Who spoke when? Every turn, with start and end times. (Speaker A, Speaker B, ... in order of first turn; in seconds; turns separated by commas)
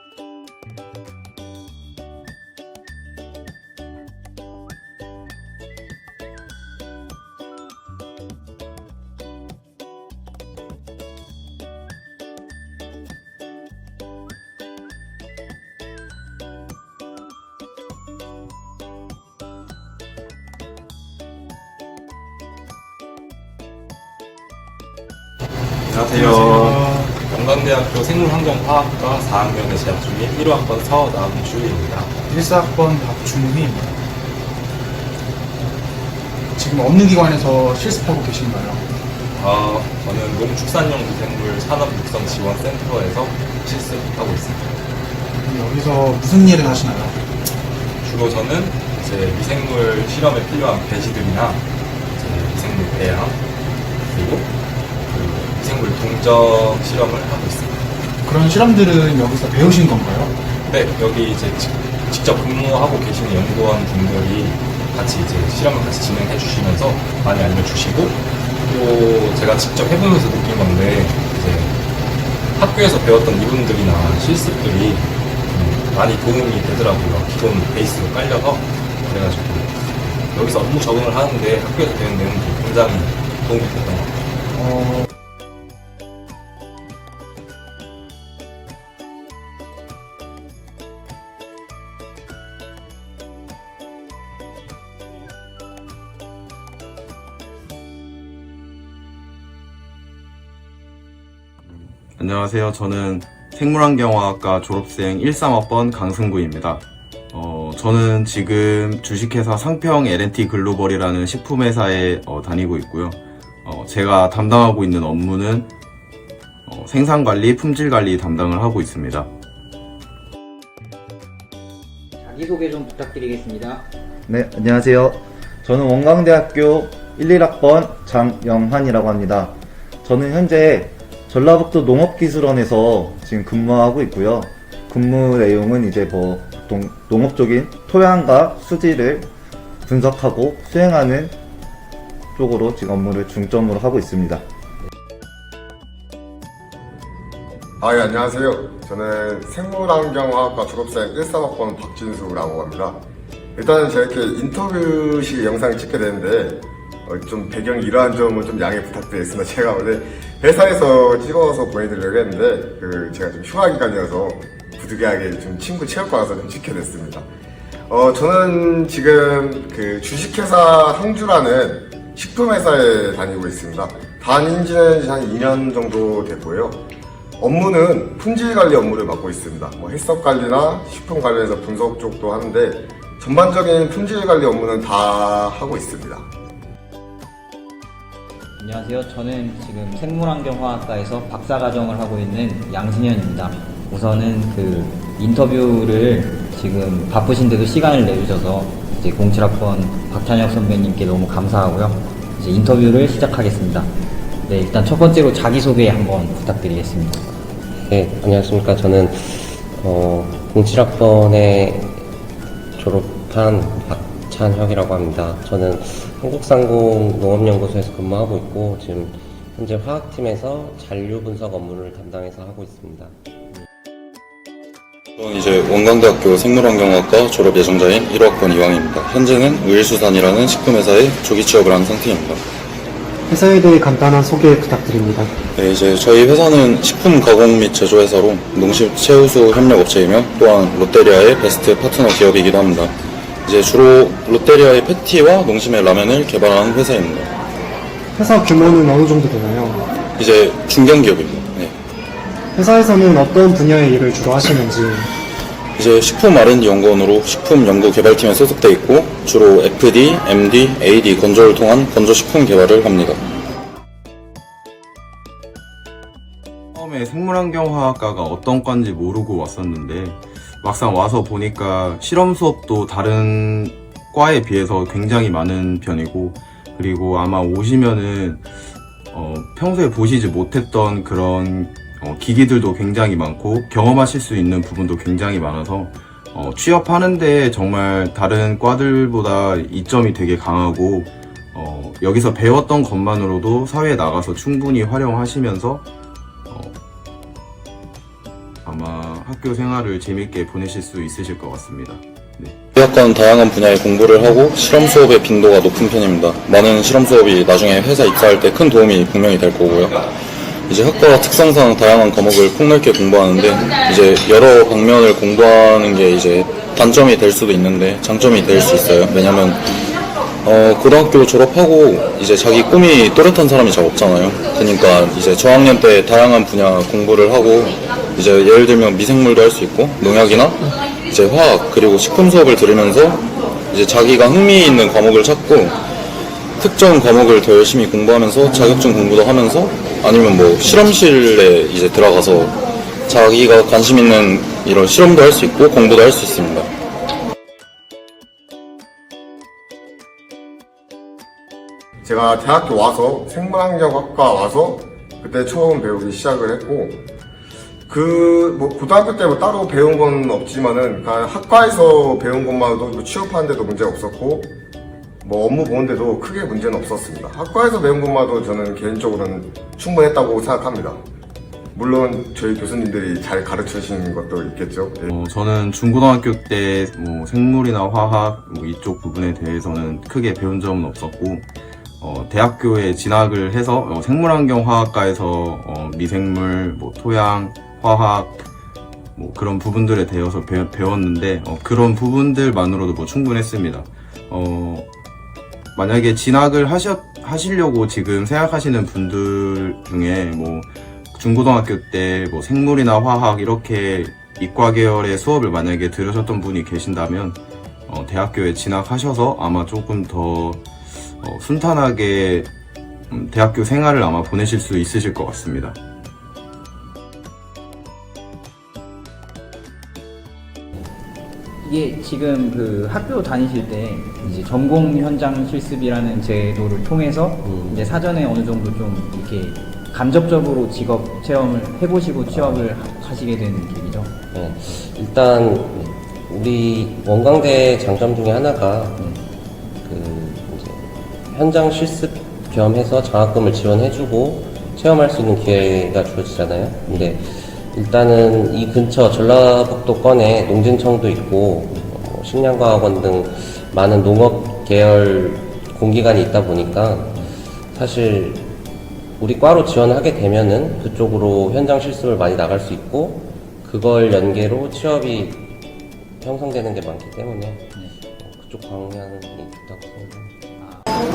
Speaker A: 25.9-32.1, Speaker B: 26.1-27.1, Speaker B: 32.3-33.9, Speaker B: 36.6-38.8, Speaker A: 39.4-44.7, Speaker B: 45.4-47.1, Speaker A: 48.0-51.6, Speaker A: 52.2-53.4, Speaker A: 54.1-54.5, Speaker A: 55.1-57.8, Speaker B: 58.2-60.3, Speaker A: 60.7-71.7, Speaker A: 72.6-84.1, Speaker B: 84.6-84.9, Speaker C: 102.2-115.7, Speaker C: 116.7-119.3, Speaker D: 122.2-123.9, Speaker E: 124.3-139.3, Speaker E: 139.8-141.3, Speaker E: 142.3-144.4, Speaker F: 147.8-153.0, Speaker F: 153.6-167.3, Speaker F: 167.9-176.8, Speaker F: 177.4-186.3, Speaker D: 188.6-203.9, Speaker D: 204.4-207.2, Speaker G: 207.8-212.1, Speaker G: 212.8-223.1, Speaker H: 225.2-232.4, Speaker I: 233.3-235.3, Speaker H: 235.6-242.9, Speaker H: 243.4-247.3, Speaker I: 248.2-249.9, Speaker H: 250.2-251.7, Speaker I: 252.6-255.1, Speaker H: 255.8-263.2, Speaker C: 266.7-278.4, Speaker C: 279.1-295.9, Speaker C: 296.5-296.7, Speaker C: 298.6-302.6, Speaker H: 302.7-310.0, Speaker H: 310.7-319.6, Speaker H: 320.4-335.7, Speaker H: 336.6-342.6, Speaker H: 343.1-346.7, Speaker F: 352.0-357.0, Speaker F: 357.9-364.5, Speaker F: 365.2-371.0, Speaker F: 371.7-375.1, Speaker C: 375.1-381.5, Speaker C: 382.0-388.4, Speaker C: 389.1-394.9, Speaker C: 395.7-410.6, Speaker C: 411.2-412.5, Speaker C: 413.1-415.8, Speaker D: 421.6-434.1, Speaker G: 427.4-427.9, Speaker G: 432.3-432.7, Speaker G: 434.3-439.1, Speaker G: 439.8-458.6, Speaker G: 459.2-465.6, Speaker G: 466.2-470.3